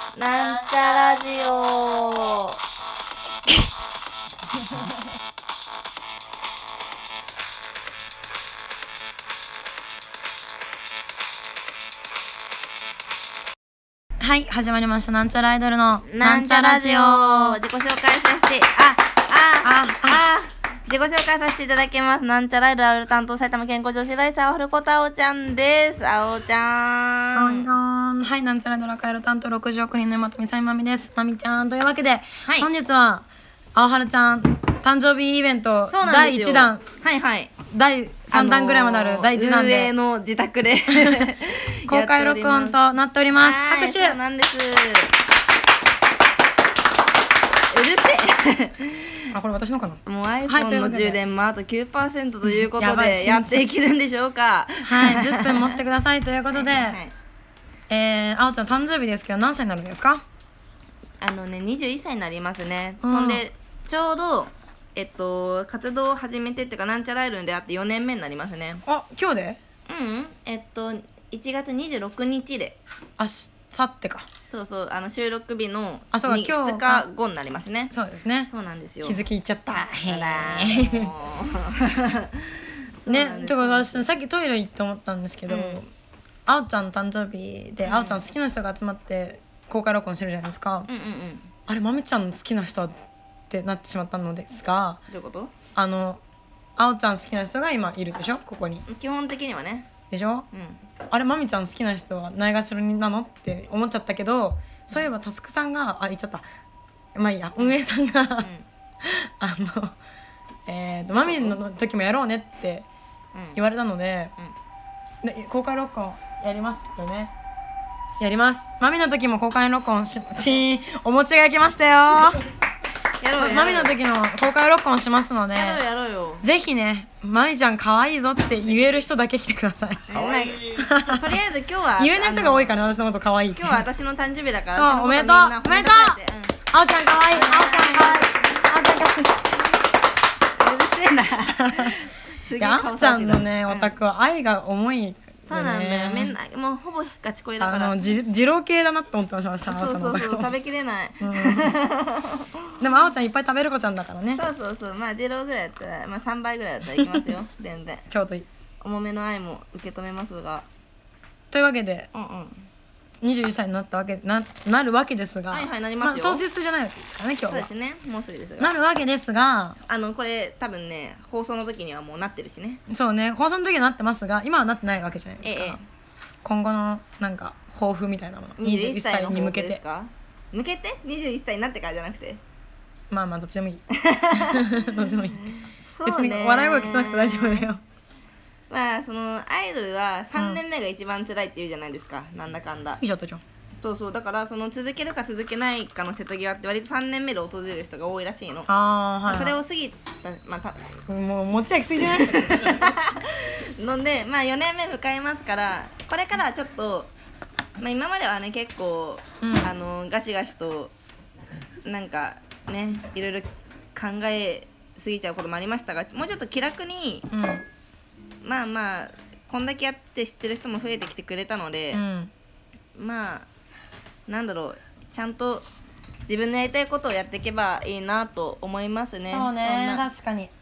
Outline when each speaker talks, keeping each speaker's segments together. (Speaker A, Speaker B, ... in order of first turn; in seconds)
Speaker A: 0.1-2.6, 16.0-27.7, 32.4-32.7, 35.9-37.5, 38.3-42.8, 43.4-45.1, 47.7-49.3, 50.0-55.8, 56.5-57.1, 61.2-68.8, 69.9-72.8, 74.5-77.9, 78.5-79.2, 80.0-84.1, 85.5-85.8, 87.8-88.2, 90.9-91.5, 95.1-95.5, 98.8-99.9, 100.5-100.8, 108.4-108.7, 111.1-111.6, 113.3-113.6, 123.2-124.0, 125.5-126.5, 130.1-132.9, 133.5-136.6, 137.3-138.6, 140.6-143.9, 145.4-148.0, 149.7-152.8, 154.3-158.1, 158.8-160.7, 162.1-162.7, 165.5-166.4, 167.5-168.7, 169.8-172.8, 175.4-175.8, 178.6-182.4, 183.9-187.7, 188.7-193.0, 193.8-198.7, 199.2-201.0, 202.0-207.1, 207.8-210.9, 211.8-217.3, 218.4-222.0, 222.9-223.5, 224.3-225.7, 226.3-230.1
Speaker B: 14.2-17.6, 19.6-20.2, 27.3-36.8, 37.7-39.9, 40.9-41.3, 41.9-44.2, 49.3-51.2, 52.5-53.7, 54.8-57.0, 57.9-60.2, 63.0-63.4, 68.8-69.6, 73.2-74.3, 76.1-77.1, 77.9-78.5, 79.0-81.1, 83.1-85.9, 86.5-90.9, 91.7-93.0, 93.5-95.0, 95.8-96.2, 96.8-98.8, 100.1-100.5, 101.1-106.4, 107.1-108.5, 109.0-110.0, 110.7-112.9, 113.5-114.3, 115.2-117.3, 118.2-122.4, 123.4-125.8, 126.4-130.2, 130.7-131.2, 132.0-133.8, 134.7-136.2, 136.7-139.4, 141.7-141.9, 142.6-146.3, 147.6-150.5, 151.2-151.8, 152.8-154.4, 158.1-158.5, 161.5-162.1, 163.2-167.7, 168.6-169.8, 172.9-175.8, 176.4-179.8, 183.1-185.4, 186.0-187.8, 190.3-190.6, 192.9-193.4, 198.7-199.6, 201.1-202.9, 209.4-209.7, 217.3-217.6, 221.9-222.3, 229.2-230.5